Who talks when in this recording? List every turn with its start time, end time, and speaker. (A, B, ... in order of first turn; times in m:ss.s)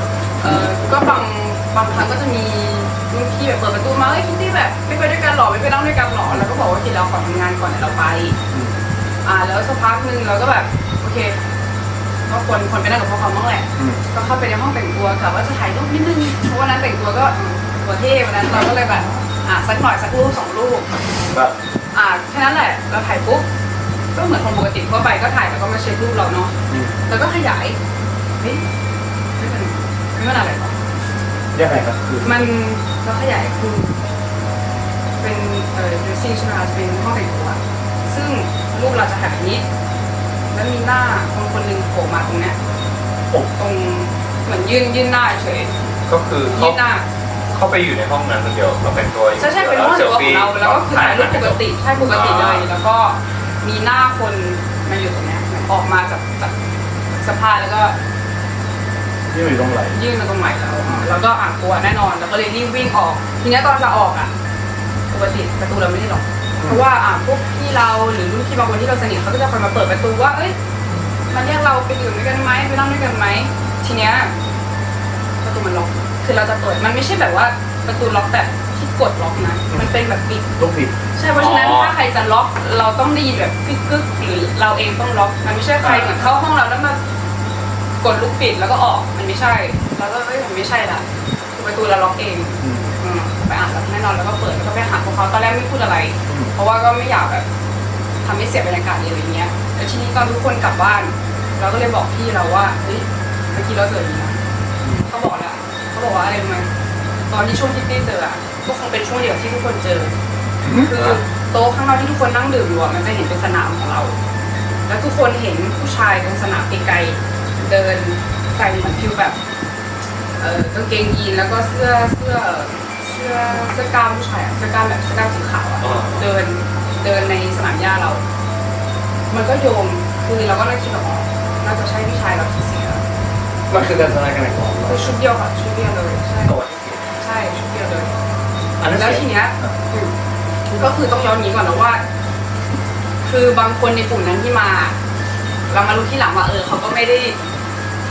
0:00.4-0:08.4 A
0:08.5-0:08.7 B
0:09.2-0:11.4 A
0:12.3-0:21.0 A
0:13.8-0:14.0 B
0:21.9-0:23.4 A
0:24.1-0:26.5 A
0:26.7-0:27.0 B
0:27.0-0:27.8 A
0:28.4-0:28.6 A
0:29.4-0:30.8 A
0:31.5-0:32.4 B
0:32.2-0:34.0 A
0:35.2-0:39.6 A
0:40.5-0:42.6 A
0:43.5-0:45.7 A
0:46.1-0:46.8 C
0:46.5-0:47.0 A
0:47.5-0:50.6 C
0:49.4-0:56.5 A
0:50.6-0:51.6 B
0:52.0-0:52.6 C
0:57.1-0:58.0 A
0:59.3-1:00.0 B
0:59.9-1:04.3 A
1:05.1-1:10.6 A
1:11.3-1:14.3 A
1:15.4-1:20.5 A
1:20.6-1:20.9 B
1:21.1-1:27.0 A
1:21.3-1:21.9 C
1:25.8-1:26.3 B
1:28.0-1:37.4 A
1:32.6-1:32.9 B
1:36.3-1:36.5 B
1:38.2-1:44.4 A
1:45.0-1:46.7 A
1:47.3-1:50.1 A
1:50.6-1:51.0 B
1:50.7-1:54.2 A
1:54.9-1:59.4 A
2:00.4-2:08.2 A
2:05.8-2:06.3 C
2:09.3-2:13.0 A
2:13.7-2:15.1 B
2:14.8-2:18.1 A
2:16.4-2:17.0 B
2:18.8-2:19.8 B
2:18.9-2:20.1 A
2:20.7-2:22.0 A
2:23.2-2:24.9 A
2:25.7-2:27.4 A